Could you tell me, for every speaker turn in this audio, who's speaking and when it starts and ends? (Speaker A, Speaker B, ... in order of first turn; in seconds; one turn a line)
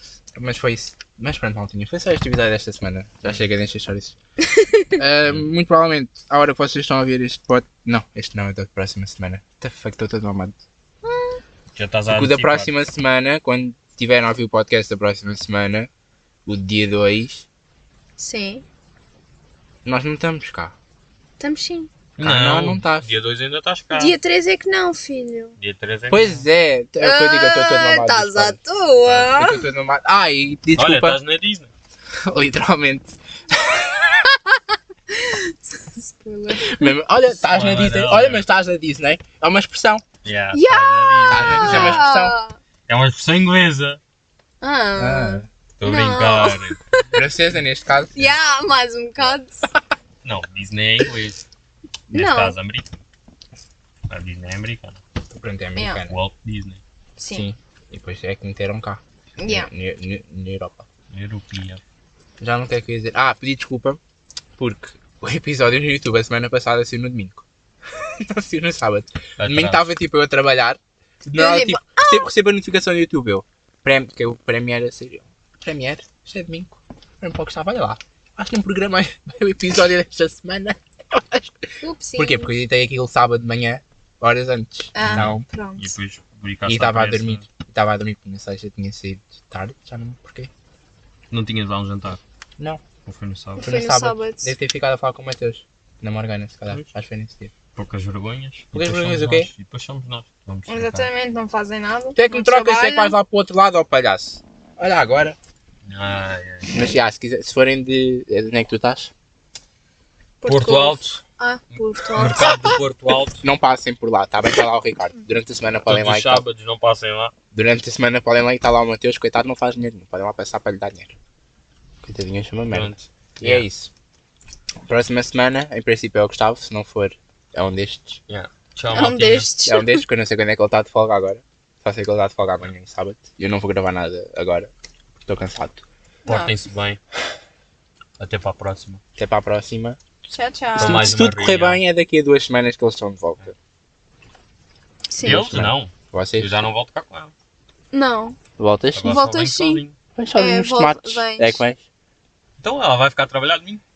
Speaker A: 0.3-4.2
Speaker B: 4.4-4.9
Speaker A: 5.0-10.6
Speaker B: 11.0-11.4
Speaker C: 11.7-12.7
Speaker A: 12.1-15.9
Speaker A: 16.4-17.4
Speaker B: 18.2-18.6
Speaker A: 19.8-20.7
Speaker B: 21.4-21.9
Speaker C: 22.2-24.1
Speaker A: 22.2-23.1
Speaker B: 23.9-25.5
Speaker C: 25.6-26.4
Speaker A: 26.1-31.2
Speaker B: 27.0-29.6
Speaker C: 30.8-31.7
Speaker A: 32.2-34.4
Speaker B: 35.1-36.9
Speaker A: 36.6-40.0
Speaker C: 37.4-38.5
Speaker C: 40.2-42.0
Speaker B: 40.5-42.6
Speaker A: 41.3-42.3
Speaker C: 42.9-44.0
Speaker B: 44.6-47.2
Speaker A: 45.0-45.5
Speaker C: 45.8-46.8
Speaker A: 47.1-48.4
Speaker B: 48.1-49.7
Speaker C: 50.2-51.4
Speaker C: 52.1-53.0
Speaker B: 52.1-52.5
Speaker C: 54.1-55.0
Speaker A: 55.3-56.2
Speaker B: 55.8-56.0
Speaker C: 56.1-56.8
Speaker B: 57.2-57.5
Speaker A: 57.3-60.9
Speaker B: 59.4-59.7
Speaker C: 61.1-61.8
Speaker A: 62.4-64.0
Speaker A: 64.6-67.4
Speaker A: 68.0-81.7
Speaker C: 69.4-69.8
Speaker B: 71.3-72.3
Speaker B: 81.8-82.5
Speaker A: 82.2-85.4
Speaker B: 84.9-85.9
Speaker C: 85.0-87.4
Speaker A: 86.7-90.5
Speaker C: 91.3-92.2
Speaker C: 93.0-93.7
Speaker B: 93.6-94.5
Speaker A: 93.6-97.5
Speaker C: 97.7-101.1
Speaker A: 98.7-99.5
Speaker B: 100.7-103.1
Speaker A: 102.1-105.4
Speaker C: 105.8-106.7
Speaker A: 106.7-109.1
Speaker B: 110.4-112.7
Speaker C: 110.5-111.2
Speaker C: 111.8-113.4
Speaker A: 113.4-116.4
Speaker C: 115.8-117.3
Speaker A: 117.5-121.1
Speaker A: 122.0-123.9
Speaker C: 122.7-123.7
Speaker A: 124.8-128.2
Speaker C: 128.3-129.5
Speaker B: 128.9-130.0
Speaker A: 129.7-134.7
Speaker A: 135.2-135.8
Speaker B: 136.2-136.5
Speaker C: 136.2-137.0
Speaker C: 138.2-139.0
Speaker A: 139.2-140.0
Speaker B: 140.3-141.1
Speaker C: 140.8-141.8
Speaker A: 140.8-143.5
Speaker B: 145.1-145.5
Speaker C: 145.2-147.3
Speaker A: 145.2-146.5
Speaker B: 147.9-148.4
Speaker A: 148.6-149.1
Speaker C: 148.9-149.9
Speaker B: 149.1-149.8
Speaker A: 150.2-151.8
Speaker B: 150.3-151.6
Speaker C: 152.6-153.8